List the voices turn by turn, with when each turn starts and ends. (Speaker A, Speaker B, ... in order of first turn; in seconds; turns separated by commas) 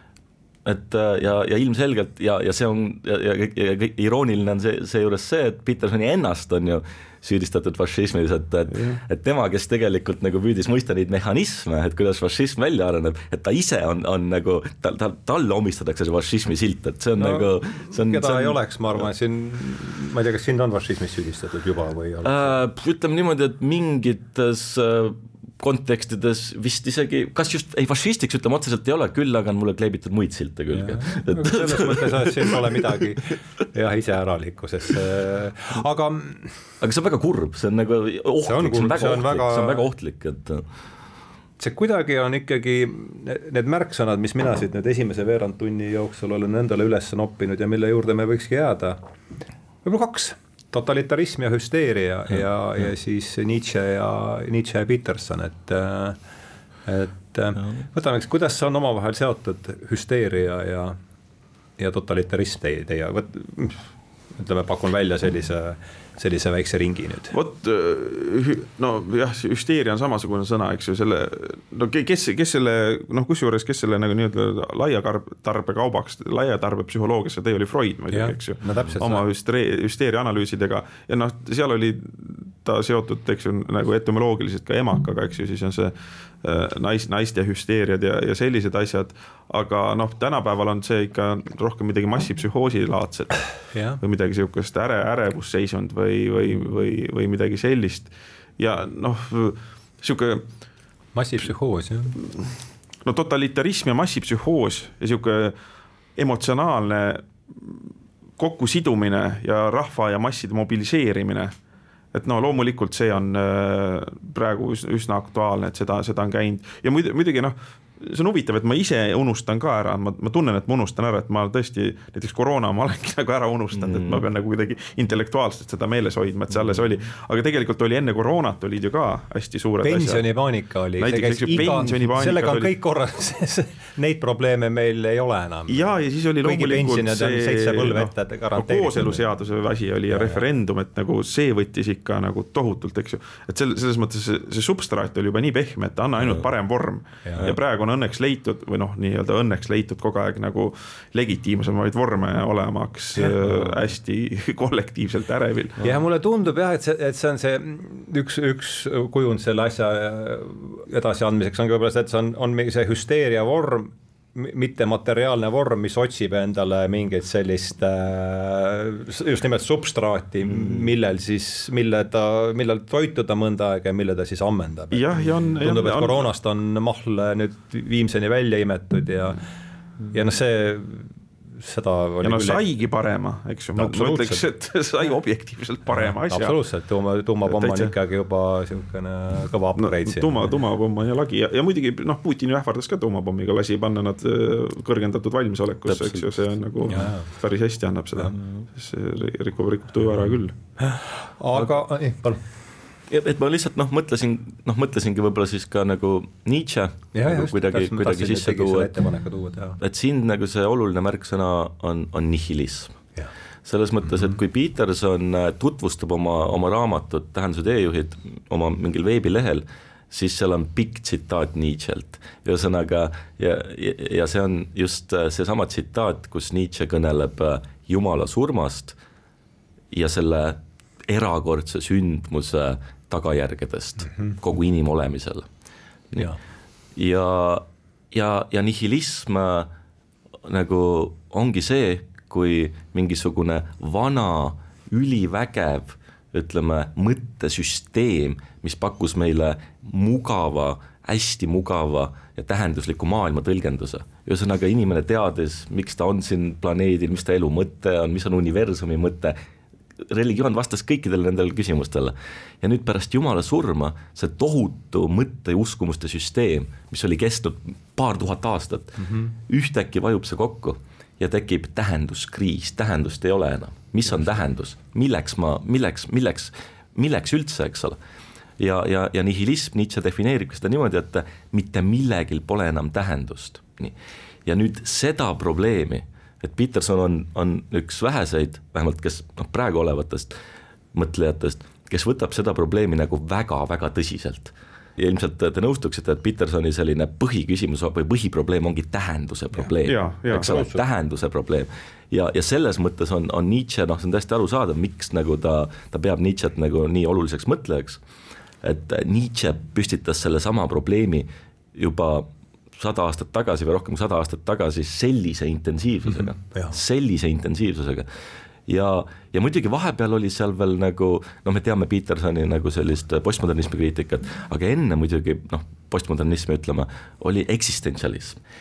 Speaker A: 0.7-18.6, Speaker B: 8.7-9.0, Speaker C: 17.2-22.5, Speaker A: 22.2-32.9, Speaker C: 30.7-36.6, Speaker A: 36.8-40.6, Speaker C: 38.5-39.9, Speaker C: 41.6-49.0, Speaker C: 49.8-56.2, Speaker C: 56.9-61.0, Speaker C: 61.8-67.4, Speaker B: 67.3-100.4, Speaker C: 78.1-79.2, Speaker C: 93.7-94.0, Speaker C: 101.1-102.2, Speaker B: 103.0-105.6, Speaker B: 106.2-107.8, Speaker B: 108.4-111.5, Speaker B: 112.1-130.2, Speaker A: 123.8-124.2, Speaker A: 126.5-127.0, Speaker C: 129.8-139.2, Speaker B: 131.0-132.7, Speaker B: 135.7-155.8, Speaker C: 140.1-140.4, Speaker C: 153.2-153.9, Speaker C: 155.8-179.4, Speaker B: 174.9-176.3, Speaker C: 180.1-182.7, Speaker B: 182.2-186.6, Speaker C: 183.8-184.4, Speaker C: 185.9-190.6, Speaker B: 187.5-187.9, Speaker B: 189.8-200.6, Speaker A: 195.9-196.3, Speaker C: 196.9-197.3, Speaker C: 200.8-202.4, Speaker A: 203.1-208.9, Speaker C: 207.1-209.8, Speaker A: 209.8-213.0, Speaker A: 213.7-229.0, Speaker A: 229.9-235.5, Speaker C: 234.0-234.4, Speaker A: 237.0-239.7, Speaker A: 240.4-259.4, Speaker A: 260.0-278.0, Speaker C: 269.0-269.3, Speaker A: 278.6-283.9, Speaker A: 284.5-290.3, Speaker A: 290.9-308.0, Speaker B: 299.8-300.6, Speaker C: 300.5-300.8, Speaker A: 308.6-318.1, Speaker C: 316.5-316.8, Speaker A: 318.7-328.4